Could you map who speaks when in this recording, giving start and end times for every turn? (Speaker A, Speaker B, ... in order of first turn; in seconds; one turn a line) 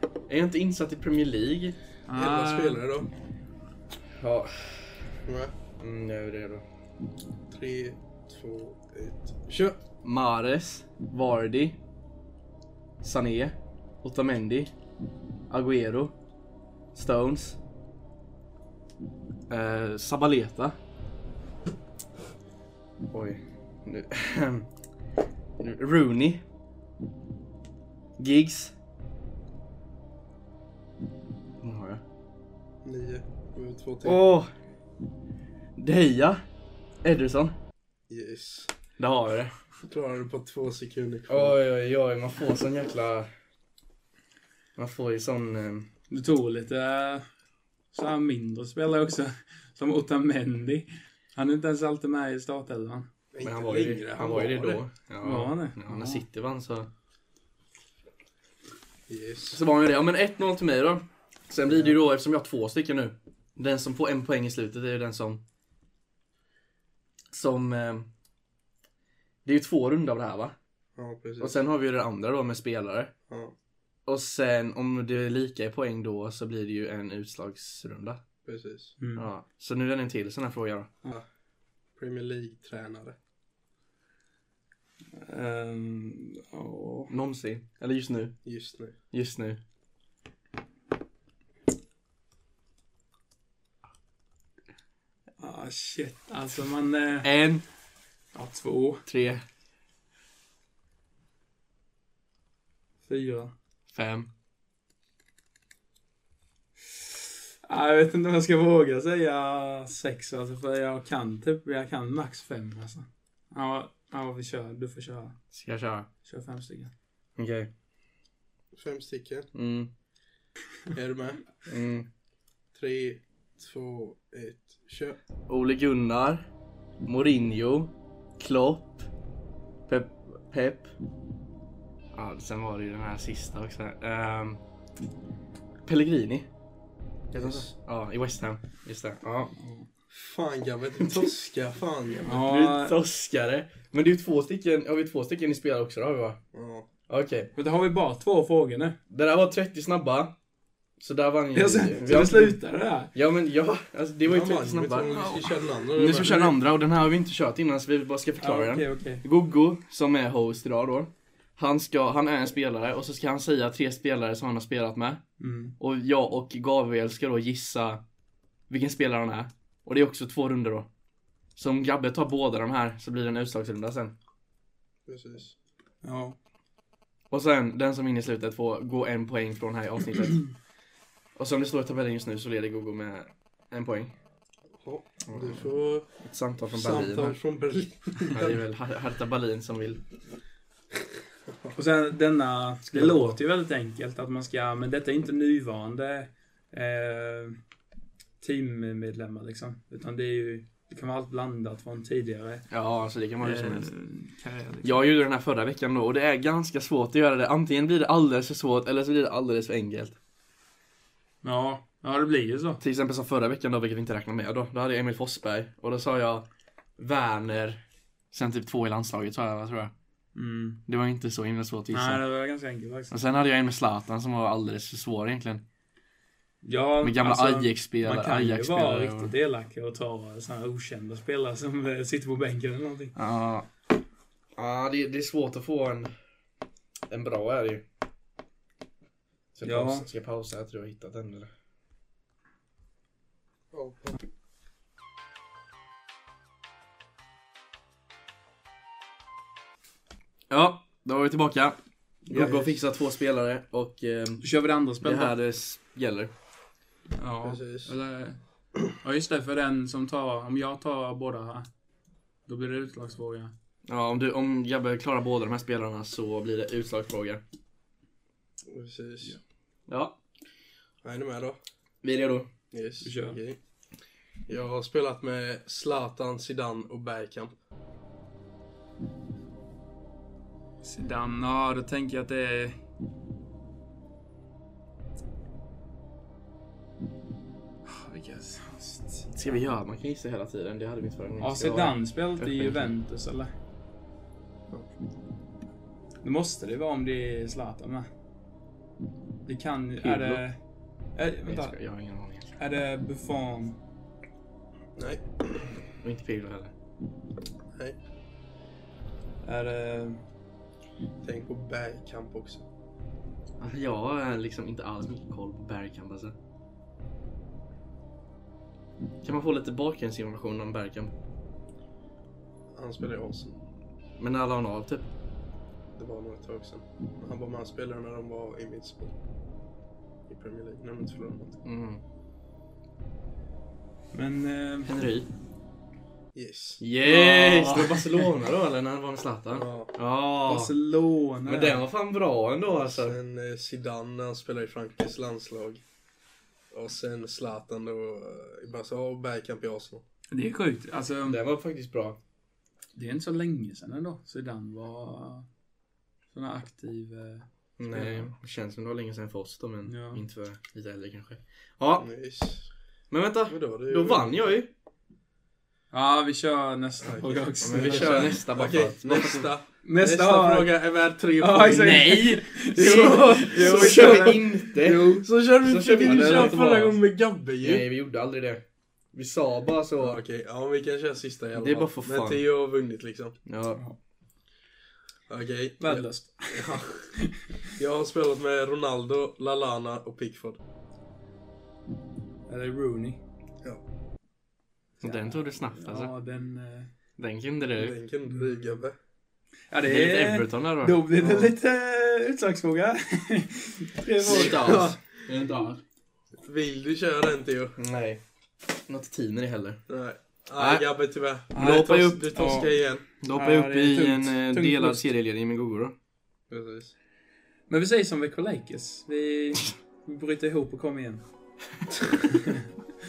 Speaker A: 0.3-1.8
Speaker B: 2.1-2.8
Speaker C: 2.1-3.1
Speaker A: 4.1-5.1
Speaker C: 5.2-5.5
Speaker A: 5.8-6.6
Speaker C: 7.5-9.8
Speaker A: 10.0-11.8
Speaker A: 13.0-14.7
Speaker A: 15.5-16.1
Speaker A: 16.9-17.6
Speaker A: 19.5-20.8
Speaker A: 23.1-24.7
Speaker A: 25.6-26.4
Speaker A: 28.2-28.7
Speaker A: 31.6-32.0
Speaker C: 32.8-34.2
Speaker A: 34.0-34.5
Speaker A: 35.8-36.4
Speaker A: 37.0-37.5
Speaker C: 38.1-38.7
Speaker A: 39.0-39.5
Speaker C: 39.9-41.6
Speaker A: 41.3-43.3
Speaker A: 44.8-45.9
Speaker B: 46.1-47.3
Speaker B: 47.9-53.1
Speaker C: 53.3-54.8
Speaker A: 53.4-56.9
Speaker B: 55.2-56.2
Speaker C: 59.1-59.6
Speaker A: 59.5-65.4
Speaker A: 67.3-68.1
Speaker A: 69.4-70.5
Speaker C: 71.0-71.6
Speaker A: 71.4-73.1
Speaker C: 73.3-73.5
Speaker A: 74.0-78.2
Speaker C: 78.4-78.9
Speaker B: 79.0-79.3
Speaker A: 79.2-80.9
Speaker C: 82.0-83.2
Speaker B: 85.1-87.1
Speaker A: 87.1-88.3
Speaker C: 88.4-88.9
Speaker A: 89.1-89.6
Speaker B: 95.4-97.3
Speaker A: 97.2-97.6
Speaker B: 98.3-99.0
Speaker A: 99.1-99.4
Speaker B: 103.0-103.5
Speaker A: 103.9-104.3
Speaker B: 107.6-115.4
Speaker A: 115.5-116.1
Speaker B: 116.2-116.9
Speaker A: 117.3-117.7
Speaker C: 118.8-119.5
Speaker A: 119.5-119.9
Speaker C: 120.9-121.4
Speaker A: 121.7-122.1
Speaker C: 122.7-125.2
Speaker A: 125.5-126.4
Speaker A: 127.0-129.1
Speaker A: 129.9-130.9
Speaker A: 132.1-134.6
Speaker A: 135.8-136.5
Speaker C: 137.3-137.7
Speaker A: 137.3-139.5
Speaker B: 139.6-139.9
Speaker C: 140.1-142.3
Speaker A: 141.0-141.3
Speaker B: 142.2-143.0
Speaker A: 142.3-146.4
Speaker C: 146.5-146.9
Speaker A: 147.1-147.5
Speaker B: 147.5-149.0
Speaker A: 149.1-150.3
Speaker A: 151.0-152.6
Speaker B: 151.5-153.1
Speaker A: 153.1-155.3
Speaker C: 154.2-156.6
Speaker B: 155.1-155.4
Speaker A: 155.9-165.2
Speaker B: 158.4-159.2
Speaker B: 165.4-165.7
Speaker A: 165.8-168.0
Speaker A: 168.7-170.9
Speaker A: 171.6-174.1
Speaker C: 175.1-175.5
Speaker B: 176.0-176.4
Speaker A: 177.3-180.5
Speaker A: 181.3-184.1
Speaker C: 184.8-186.2
Speaker A: 185.3-185.7
Speaker A: 186.2-187.4
Speaker C: 186.7-188.6
Speaker A: 188.3-190.0
Speaker B: 191.7-197.6
Speaker B: 198.4-202.7
Speaker A: 202.7-203.9
Speaker B: 203.4-205.0
Speaker A: 204.8-210.2
Speaker B: 211.4-212.8
Speaker A: 212.8-216.5
Speaker A: 217.0-219.9
Speaker B: 220.3-220.8
Speaker A: 220.9-222.2
Speaker B: 221.9-223.1
Speaker A: 223.1-225.6
Speaker B: 226.6-233.2
Speaker A: 227.0-229.3
Speaker A: 233.2-233.7
Speaker A: 234.6-236.1
Speaker A: 237.1-237.8
Speaker A: 239.5-241.5
Speaker B: 239.6-240.0
Speaker C: 243.7-244.2
Speaker A: 250.5-254.4
Speaker C: 252.3-252.7
Speaker B: 254.4-255.3
Speaker A: 255.0-256.3
Speaker B: 257.2-258.4
Speaker C: 257.4-257.9
Speaker B: 258.9-261.7
Speaker B: 262.5-263.5
Speaker A: 263.9-267.4
Speaker C: 268.7-269.4
Speaker A: 269.9-270.2
Speaker C: 271.0-271.6
Speaker A: 272.0-272.5
Speaker C: 272.7-273.6
Speaker B: 273.0-273.4
Speaker C: 274.5-277.5
Speaker B: 280.8-282.8
Speaker B: 287.9-289.3
Speaker A: 289.3-292.9
Speaker B: 291.4-293.5
Speaker B: 296.2-298.1
Speaker B: 299.4-300.6
Speaker A: 300.0-300.4
Speaker B: 301.1-301.7
Speaker A: 301.5-302.6
Speaker B: 302.6-303.8
Speaker C: 305.0-305.8
Speaker A: 306.0-306.7
Speaker B: 309.4-310.2
Speaker C: 311.2-312.6
Speaker A: 313.6-316.3
Speaker A: 319.2-321.1
Speaker C: 322.7-323.6
Speaker A: 324.2-325.1
Speaker C: 325.9-329.1
Speaker C: 330.3-331.6
Speaker A: 331.6-332.0
Speaker B: 334.1-334.9
Speaker A: 334.9-335.3
Speaker C: 336.3-336.8
Speaker A: 336.8-340.7
Speaker B: 337.0-338.3
Speaker C: 339.5-339.9
Speaker B: 340.4-341.8
Speaker A: 341.5-343.1
Speaker C: 342.7-345.8
Speaker C: 346.7-350.0
Speaker B: 350.3-351.4
Speaker A: 351.2-352.2
Speaker B: 352.9-355.5
Speaker B: 356.3-358.3
Speaker A: 357.8-362.1
Speaker B: 359.8-360.2
Speaker C: 362.0-362.7
Speaker A: 363.1-364.7
Speaker C: 363.5-364.4
Speaker B: 365.9-368.3
Speaker C: 367.0-372.1
Speaker A: 367.6-369.5
Speaker B: 369.8-370.7
Speaker B: 371.4-375.2
Speaker A: 371.7-377.0
Speaker C: 372.7-377.8
Speaker B: 376.1-376.5
Speaker A: 377.6-380.2
Speaker C: 380.0-383.4
Speaker A: 381.5-382.4
Speaker A: 383.4-383.8
Speaker C: 385.3-387.1
Speaker B: 385.8-387.7
Speaker C: 387.7-390.6
Speaker B: 392.5-393.2
Speaker A: 395.0-396.1
Speaker B: 395.0-396.9
Speaker A: 397.2-397.9
Speaker C: 397.8-398.9
Speaker B: 398.3-398.8
Speaker B: 399.7-404.8
Speaker A: 399.9-401.0
Speaker C: 401.2-401.5
Speaker A: 404.2-405.8
Speaker C: 404.2-405.2
Speaker C: 406.4-407.8
Speaker A: 407.8-408.2
Speaker A: 408.9-409.8
Speaker C: 409.9-413.0
Speaker A: 410.6-410.9
Speaker B: 411.5-412.7
Speaker A: 411.5-412.2
Speaker A: 413.2-415.9
Speaker B: 413.3-415.0
Speaker C: 416.5-416.9
Speaker B: 417.7-421.2
Speaker B: 422.3-422.7